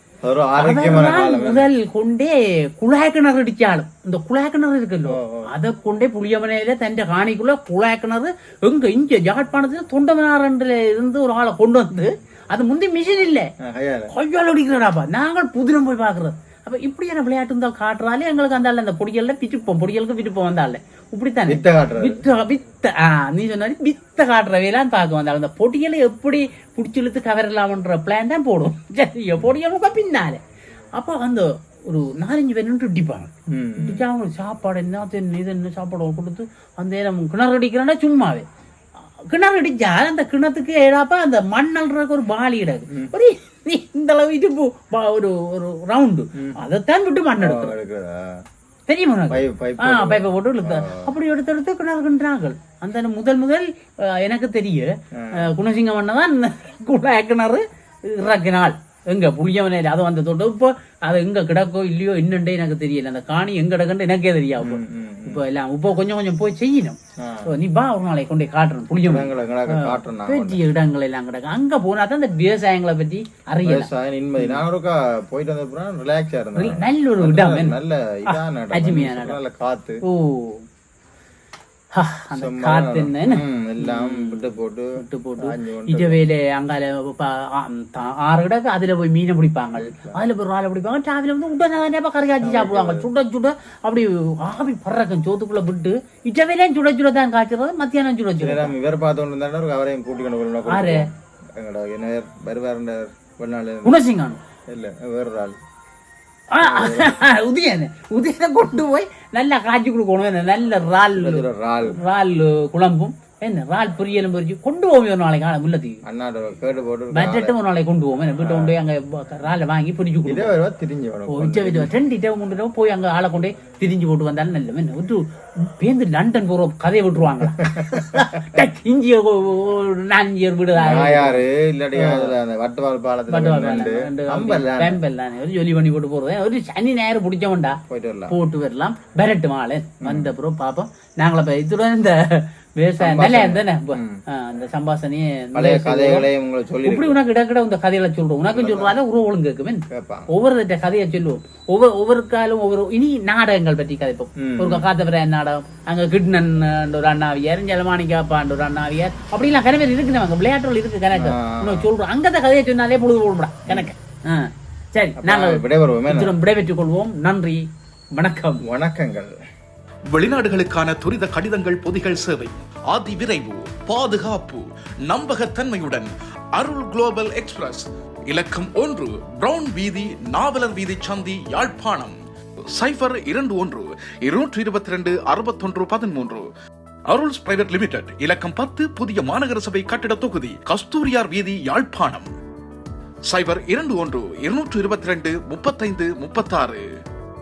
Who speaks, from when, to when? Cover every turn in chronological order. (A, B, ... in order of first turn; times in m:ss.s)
0:00.2-0:01.7 A
0:00.6-0:13.5 B
0:05.0-0:05.5 A
0:13.6-0:14.1 A
0:14.1-0:30.4 B
0:21.5-0:22.2 A
0:30.9-0:38.4 B
0:33.5-0:34.0 A
0:39.3-0:47.7 B
0:47.4-0:48.4 A
0:48.9-1:14.6 B
0:49.3-0:51.1 A
0:55.1-0:55.5 A
1:04.6-1:05.4 A
1:07.2-1:07.5 A
1:09.0-1:10.6 A
1:13.6-1:20.0 A
1:16.6-1:19.4 B
1:20.0-1:20.6 B
1:21.9-1:38.7 B
1:22.3-1:26.2 A
1:29.8-1:30.2 A
1:32.4-1:33.1 A
1:38.4-1:44.0 A
1:40.7-1:41.0 B
1:43.8-1:44.4 B
1:44.7-1:45.6 A
1:46.5-1:56.0 B
1:46.6-1:47.2 A
1:51.1-1:52.0 A
1:56.0-1:57.5 A
1:57.1-2:00.6 B
1:58.4-1:58.8 A
2:00.2-2:01.9 A
2:01.3-2:11.4 B
2:07.6-2:08.2 A
2:10.7-2:15.0 A
2:11.9-2:12.3 B
2:13.3-2:26.3 B
2:17.9-2:18.3 A
2:20.0-2:20.3 A
2:23.0-2:24.2 A
2:25.5-2:27.2 A
2:26.8-2:47.6 B
2:28.5-2:28.9 A
2:29.9-2:30.3 A
2:34.4-2:34.8 A
2:41.1-2:41.9 A
2:45.2-2:46.4 A
2:48.1-2:48.6 B
2:48.6-2:49.3 A
2:50.2-3:02.1 C
3:02.8-3:06.4 C
3:07.1-3:12.3 C
3:13.3-3:16.8 C